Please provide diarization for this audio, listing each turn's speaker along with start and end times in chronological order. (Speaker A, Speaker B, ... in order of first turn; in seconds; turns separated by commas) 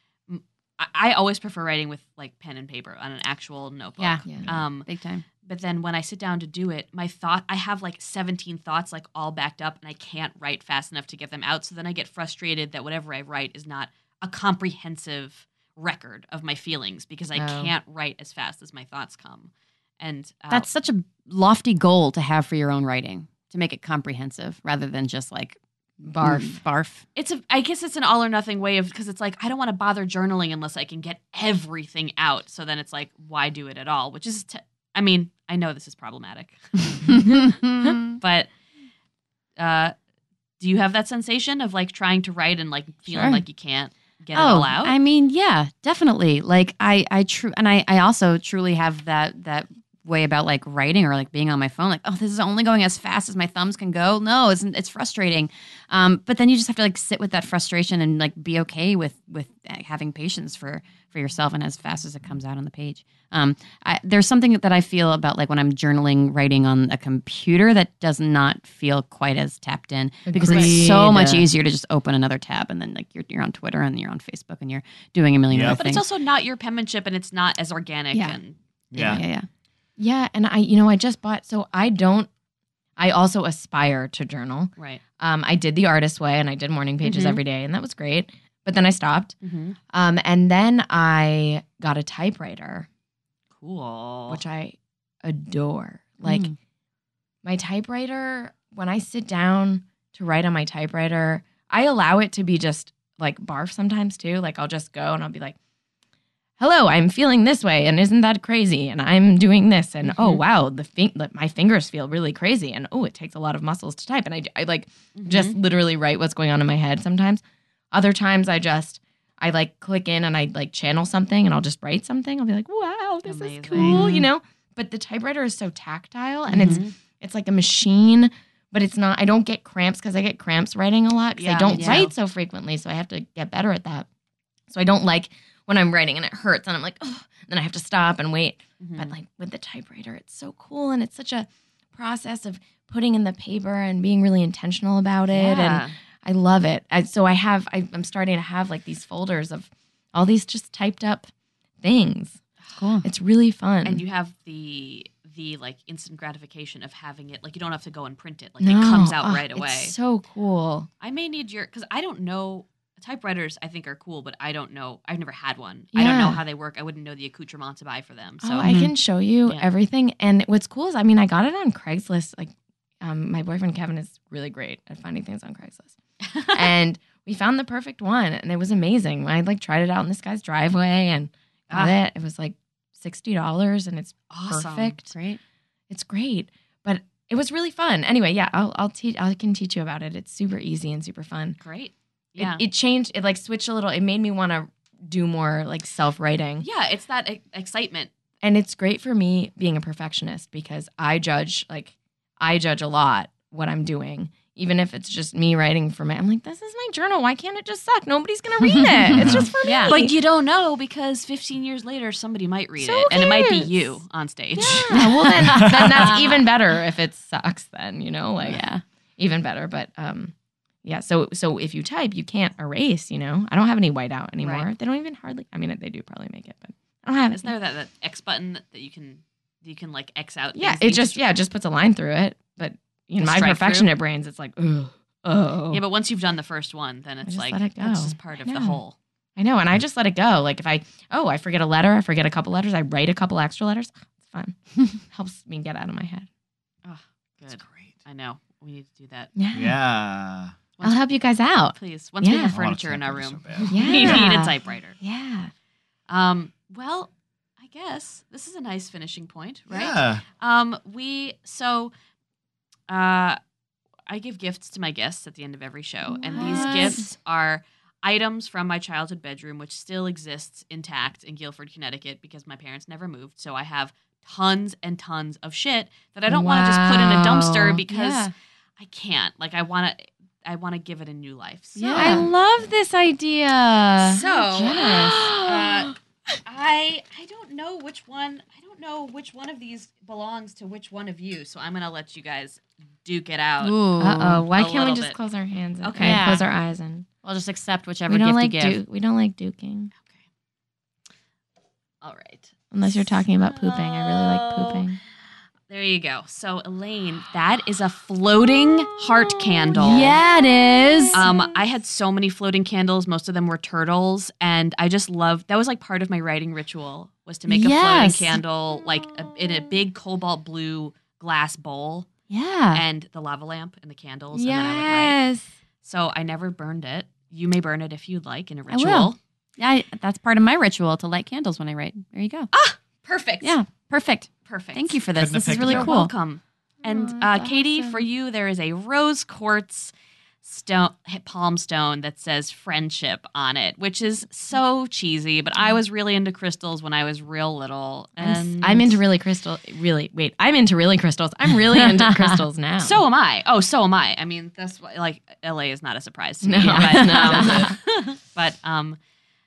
Speaker A: 0.3-4.9, Speaker B: 4.0-5.2, Speaker C: 4.2-4.5, Speaker A: 5.4-20.7, Speaker C: 17.3-17.7, Speaker B: 20.5-25.6, Speaker C: 26.0-26.6, Speaker B: 26.2-27.0, Speaker A: 27.1-36.8, Speaker B: 37.1-38.2, Speaker A: 38.2-38.5, Speaker A: 39.6-39.9, Speaker A: 40.6-44.9, Speaker B: 43.1-43.4, Speaker B: 44.3-76.0, Speaker C: 70.3-71.5, Speaker A: 70.4-70.8, Speaker D: 75.5-75.8, Speaker A: 75.7-78.6, Speaker B: 78.1-78.4, Speaker D: 78.9-79.2, Speaker B: 78.9-79.5, Speaker C: 80.0-82.3, Speaker C: 83.0-89.3, Speaker B: 87.0-87.4, Speaker A: 89.4-89.8, Speaker C: 89.9-92.9, Speaker A: 93.6-94.4, Speaker C: 94.3-96.5, Speaker B: 96.2-96.5, Speaker C: 97.4-105.6, Speaker C: 106.6-134.1, Speaker A: 110.0-110.4, Speaker A: 115.1-115.6, Speaker A: 123.2-124.2, Speaker B: 123.8-124.2, Speaker B: 126.5-126.9, Speaker A: 131.3-132.1, Speaker B: 131.7-132.1, Speaker C: 134.7-151.3, Speaker A: 138.8-139.1, Speaker A: 145.3-145.9, Speaker C: 151.8-152.4, Speaker B: 152.8-153.1, Speaker C: 153.0-154.0, Speaker A: 153.8-159.9, Speaker C: 158.6-160.9, Speaker A: 161.0-168.7, Speaker C: 165.9-166.4, Speaker C: 168.4-176.0, Speaker B: 168.6-168.9, Speaker A: 176.2-176.7, Speaker C: 176.5-185.1, Speaker A: 181.7-181.9, Speaker A: 184.3-185.0, Speaker B: 185.1-185.4, Speaker C: 185.9-191.6, Speaker A: 191.6-192.6, Speaker C: 192.4-196.7, Speaker A: 196.6-198.1, Speaker C: 198.4-210.2, Speaker B: 208.6-209.9, Speaker D: 209.2-209.4, Speaker A: 209.8-214.9, Speaker C: 212.8-214.0, Speaker C: 214.6-218.6, Speaker B: 214.9-216.4, Speaker D: 215.4-216.1, Speaker B: 218.4-218.8, Speaker C: 219.2-227.5, Speaker A: 224.4-224.7, Speaker A: 227.3-231.2, Speaker C: 230.5-235.8, Speaker A: 233.2-233.9, Speaker A: 235.7-238.9, Speaker C: 237.2-238.8, Speaker C: 239.3-246.3, Speaker A: 246.8-249.3, Speaker C: 249.3-249.8, Speaker D: 249.5-250.6, Speaker C: 250.8-252.6, Speaker A: 251.7-255.0, Speaker D: 252.5-253.7, Speaker C: 253.7-255.5, Speaker A: 256.1-261.9, Speaker D: 259.7-260.2, Speaker A: 262.9-263.4, Speaker A: 264.1-282.3, Speaker C: 266.1-267.1, Speaker B: 266.3-267.0, Speaker C: 276.3-277.8, Speaker B: 277.7-278.3, Speaker B: 281.8-282.2, Speaker C: 281.9-286.3, Speaker A: 284.0-285.9, Speaker B: 284.0-285.4, Speaker A: 286.4-293.7, Speaker B: 293.6-294.4, Speaker C: 294.0-297.1, Speaker A: 294.5-295.2, Speaker A: 295.8-296.3, Speaker B: 296.0-296.4, Speaker B: 297.2-298.8, Speaker C: 298.1-299.9, Speaker A: 302.0-304.9, Speaker C: 302.7-305.0, Speaker A: 305.7-310.1, Speaker B: 309.8-311.2, Speaker A: 311.1-322.1, Speaker B: 317.5-318.4, Speaker B: 322.3-322.8, Speaker A: 322.7-325.2, Speaker C: 324.3-325.5, Speaker A: 325.8-329.2, Speaker B: 328.7-332.5, Speaker A: 332.5-333.6, Speaker B: 333.4-336.1, Speaker A: 334.4-339.9, Speaker D: 335.1-336.0, Speaker C: 336.8-338.0, Speaker A: 340.4-349.0, Speaker C: 348.2-353.0, Speaker B: 351.7-352.3, Speaker A: 352.8-359.0, Speaker C: 356.4-357.8, Speaker B: 356.6-357.7